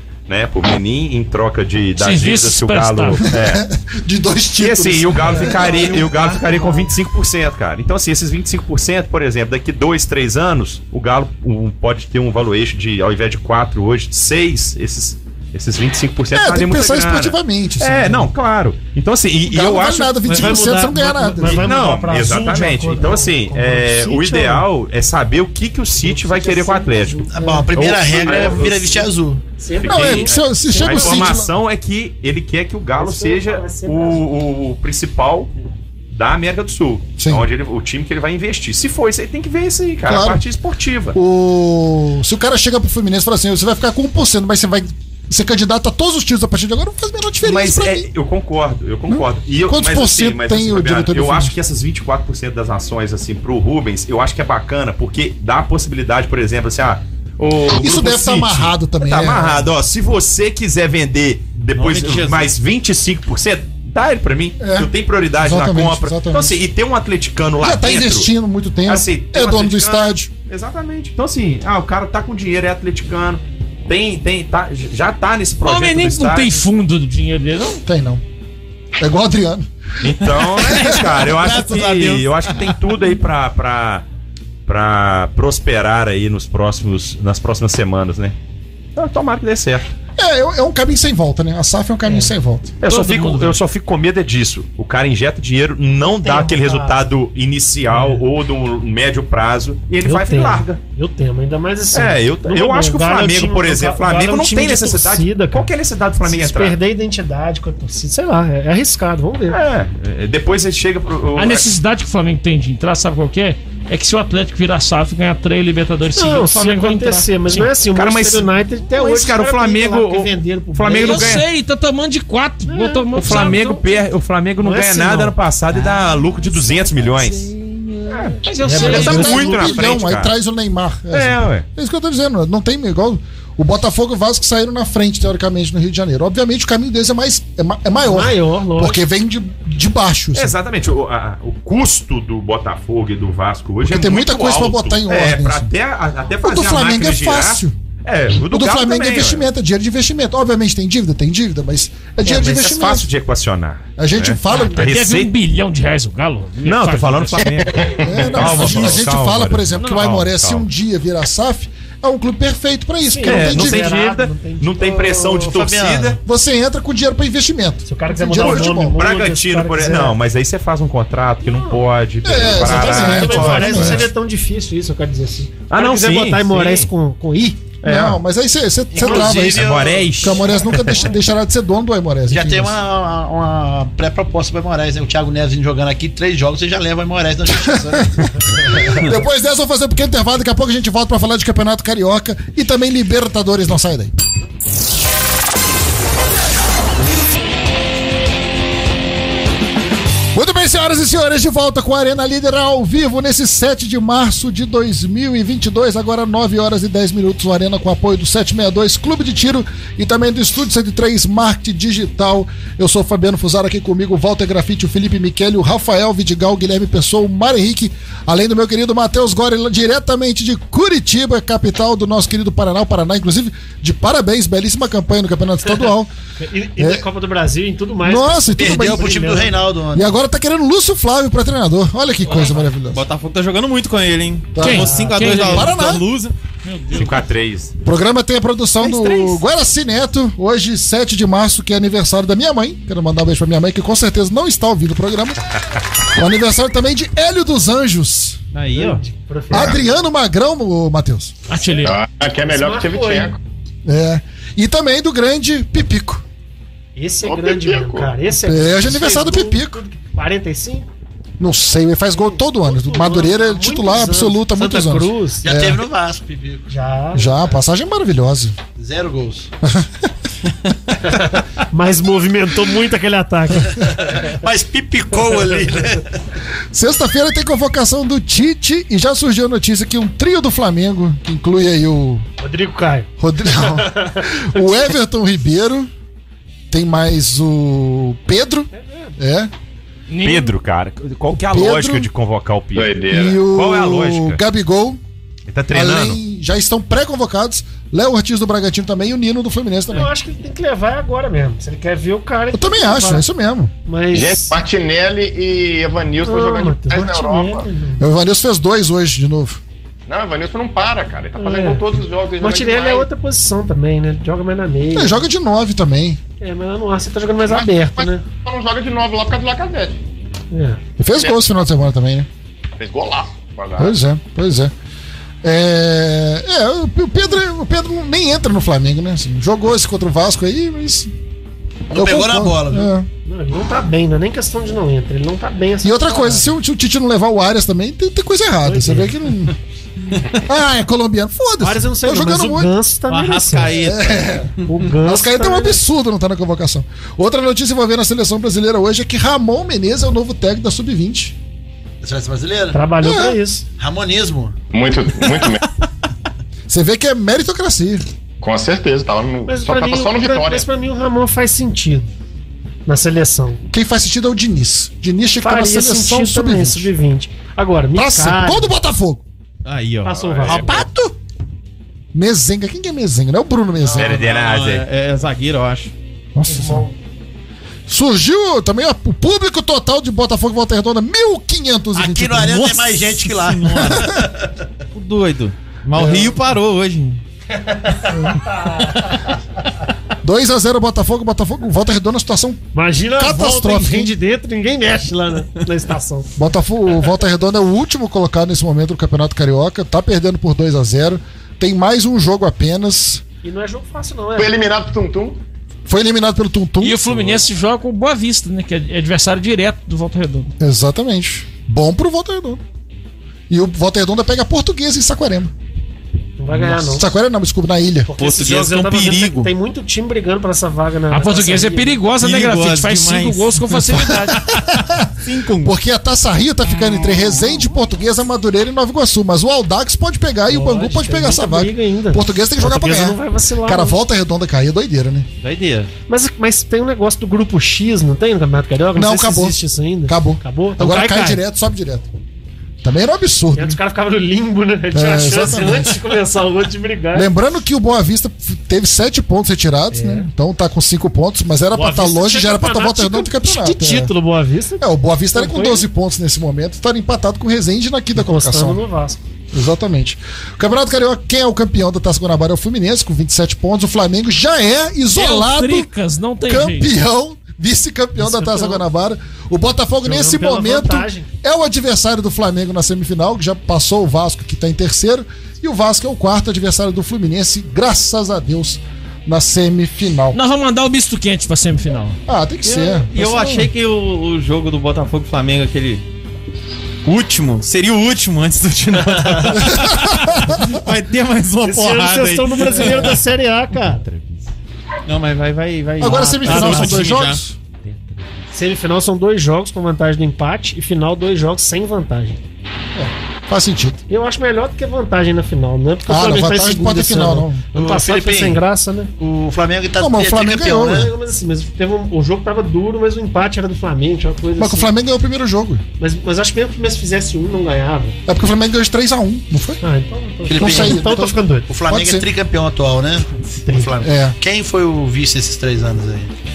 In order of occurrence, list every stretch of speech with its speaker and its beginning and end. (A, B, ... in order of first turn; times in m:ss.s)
0:00.3-0:03.6 A
0:02.0-0:03.2 B
0:03.2-0:06.1 C
0:04.6-0:20.6 A
0:05.4-0:06.9 D
0:16.3-0:18.3 C
0:19.5-0:21.7 C
0:20.2-0:24.6 D
0:21.4-0:29.0 A
0:26.0-0:27.3 D
0:27.3-0:29.4 E
0:27.4-0:27.7 C
0:28.2-0:28.9 D
0:29.6-0:31.4 D
0:29.7-0:35.5 A
0:29.8-0:31.5 C
0:32.9-0:34.2 D
0:36.1-0:41.2 A
0:37.2-0:37.4 C
0:40.0-0:40.4 C
0:41.1-0:48.1 C
0:47.4-1:08.3 A
0:49.1-0:51.5 C
0:57.8-0:59.7 C
1:01.7-1:02.5 F
1:04.6-1:06.6 C
1:07.6-1:10.3 C
1:08.8-1:16.5 A
1:15.6-1:17.8 B
1:17.8-1:18.2 C
1:19.0-1:21.1 C
1:20.0-1:24.0 A
1:20.6-1:22.4 E
1:24.6-1:28.3 A
1:29.0-1:29.9 A
1:30.2-1:32.8 C
1:32.1-1:32.3 D
1:32.8-1:40.8 A
1:32.9-1:33.6 B
1:36.0-1:37.0 D
1:37.9-1:38.2 D
1:40.0-1:45.7 D
1:41.9-1:46.8 A
1:46.2-1:49.6 D
1:49.5-1:51.7 A
1:51.4-1:57.7 B
1:56.1-2:01.4 D
1:57.9-2:01.4 A
2:00.8-2:03.9 B
2:02.7-2:03.1 D
2:03.1-2:10.3 A
2:04.6-2:06.0 D
2:06.6-2:07.0 D
2:08.1-2:09.5 D
2:08.4-2:09.6 B
2:08.7-2:20.5 C
2:11.1-2:11.6 A
2:18.0-2:19.0 D
2:20.3-2:29.5 A
2:23.8-2:25.7 C
2:26.4-2:27.8 C
2:28.4-2:33.1 C
2:32.2-2:35.3 A
2:34.0-2:35.0 C
2:34.5-2:34.8 D
2:34.9-2:37.8 B
2:36.6-2:40.6 A
2:38.0-2:43.9 C
2:43.0-2:45.0 D
2:43.2-2:46.2 A
2:44.8-2:46.2 E
2:46.2-2:49.0 C
2:47.9-2:50.2 D
2:48.4-2:54.1 A
2:51.5-2:51.8 D
2:52.2-2:54.1 C
2:52.4-2:57.6 D
2:55.7-2:56.9 A
2:57.8-2:58.2 A
2:57.8-3:02.8 C
2:58.9-3:00.2 E
2:59.1-3:01.0 A
3:02.3-3:08.2 E
3:07.5-3:14.1 C
3:20.3-3:46.1 C
3:46.4-3:49.6 D
3:46.8-3:47.0 C
3:48.0-3:49.2 C
3:48.6-3:50.1 E
3:49.9-3:53.0 C
3:52.4-3:56.3 F
3:54.5-3:56.0 C
3:54.6-3:55.8 B
3:54.8-3:55.4 D
3:56.6-3:57.2 B
3:56.9-3:57.7 A
3:57.8-4:05.4 C
4:06.1-4:08.4 C
4:08.5-4:09.0 F
4:08.7-4:09.8 D
4:09.5-4:11.3 C
4:11.5-4:12.0 B
4:11.8-4:13.4 G
4:12.4-4:13.3 D
4:13.8-4:16.2 C
4:17.0-4:20.9 D
4:17.2-4:18.1 G
4:18.4-4:19.8 C
4:21.4-4:25.8 C
4:22.1-4:25.4 D
4:25.4-4:26.7 E
4:26.7-4:27.4 D
4:27.1-4:28.6 C
4:28.8-4:29.5 E
4:29.6-4:29.9 C
4:31.0-4:34.2 D
4:33.8-4:36.1 E
4:36.7-4:42.2 C
4:42.4-4:44.9 D
4:43.2-4:45.9 C
4:46.7-4:49.5 C
4:48.7-4:49.1 D
4:50.1-4:50.5 B
4:50.2-4:54.4 A
4:51.3-4:52.1 C
4:52.7-4:53.4 G
4:53.1-4:55.0 C
4:55.5-4:56.2 A
4:55.7-5:00.1 C
4:59.9-5:03.2 D
5:02.5-5:03.7 C
5:03.8-5:04.5 D
5:04.1-5:07.7 G
5:06.2-5:08.0 D
5:08.0-5:09.6 C
5:10.1-5:13.1 G
5:11.4-5:11.8 D
5:12.4-5:15.2 D
5:14.9-5:16.2 C
5:16.4-5:18.2 D
5:17.5-5:20.0 G
5:20.5-5:20.8 D
5:21.0-5:22.3 C
5:22.8-5:23.9 G
5:23.8-5:24.7 C
5:25.4-5:31.1 C
5:31.9-5:32.9 E
5:31.9-5:33.1 C
5:33.2-5:36.5 D
5:35.8-5:39.5 C
5:38.6-5:39.2 D
5:40.4-5:42.7 C
5:41.6-5:43.8 D
5:43.1-5:44.6 F
5:43.7-5:51.3 C
5:44.6-5:45.8 D
5:52.0-5:52.8 E
5:52.7-5:53.6 D
5:53.0-5:53.4 C
5:53.8-5:54.5 E
5:54.7-5:55.6 G
5:56.7-5:58.0 C
5:58.4-6:00.6 G
5:59.5-6:02.1 D
6:02.8-6:03.6 D
6:03.7-6:06.9 C
6:05.4-6:08.7 D
6:07.9-6:09.2 C
6:09.6-6:10.8 F
6:10.0-6:10.9 D
6:10.5-6:11.1 E
6:12.1-6:14.2 C
6:13.9-6:14.8 A
6:14.0-6:15.9 F
6:16.3-6:16.9 C
6:16.5-6:16.9 D
6:17.9-6:23.0 C
6:21.9-6:24.2 E
6:23.0-6:24.2 F
6:24.9-6:27.2 F
6:26.0-6:26.4 C
6:28.1-6:28.4 C
6:30.2-6:32.6 C
6:32.7-6:36.3 D
6:33.1-6:34.1 C
6:36.4-6:43.2 C
6:43.4-6:44.5 D
6:44.4-6:45.4 G
6:45.8-6:47.4 C
6:46.8-6:50.5 B
6:50.6-6:52.6 C
6:53.5-6:55.5 C
6:56.4-6:57.1 D
6:56.7-6:58.1 C
6:58.0-7:02.0 D
6:58.2-6:59.5 F
7:01.1-7:04.5 B
7:02.2-7:04.0 F
7:04.2-7:05.1 C
7:04.6-7:05.8 F
7:05.6-7:15.3 C
7:06.8-7:07.6 F
7:10.5-7:14.0 D
7:15.4-7:15.9 F
7:16.1-7:21.4 D
7:18.9-7:22.1 C
7:22.8-7:23.8 C
7:23.6-7:27.3 D
7:24.9-7:26.0 C
7:27.1-7:34.1 C
7:29.9-7:30.3 D
7:31.7-7:35.8 D
7:34.8-7:38.8 C
7:38.1-7:39.2 D
7:39.5-7:45.9 C
7:45.1-7:46.9 B
7:46.4-8:00.4 C
7:48.2-7:48.8 D
7:50.0-7:51.3 D
8:00.3-8:02.2 B
8:02.3-8:03.7 C
8:02.6-8:06.0 F
8:07.0-8:13.2 F
8:09.7-8:10.6 C
8:11.6-8:14.0 D
8:15.1-8:17.4 F
8:16.0-8:17.6 C
8:16.0-8:17.1 D
8:18.5-8:22.4 D
8:22.9-8:24.0 C
8:24.1-8:29.1 D
8:26.1-8:27.6 C
8:27.7-8:28.6 E
8:29.2-8:31.1 E
8:30.0-8:31.1 C
8:30.9-8:34.9 D
8:34.6-8:35.8 C
8:36.0-8:38.2 D
8:38.2-8:39.8 C
8:39.8-8:41.7 D
8:40.5-8:41.1 E
8:40.5-8:42.3 C
8:41.7-8:46.3 E
8:43.6-8:43.9 D
8:44.0-8:44.4 C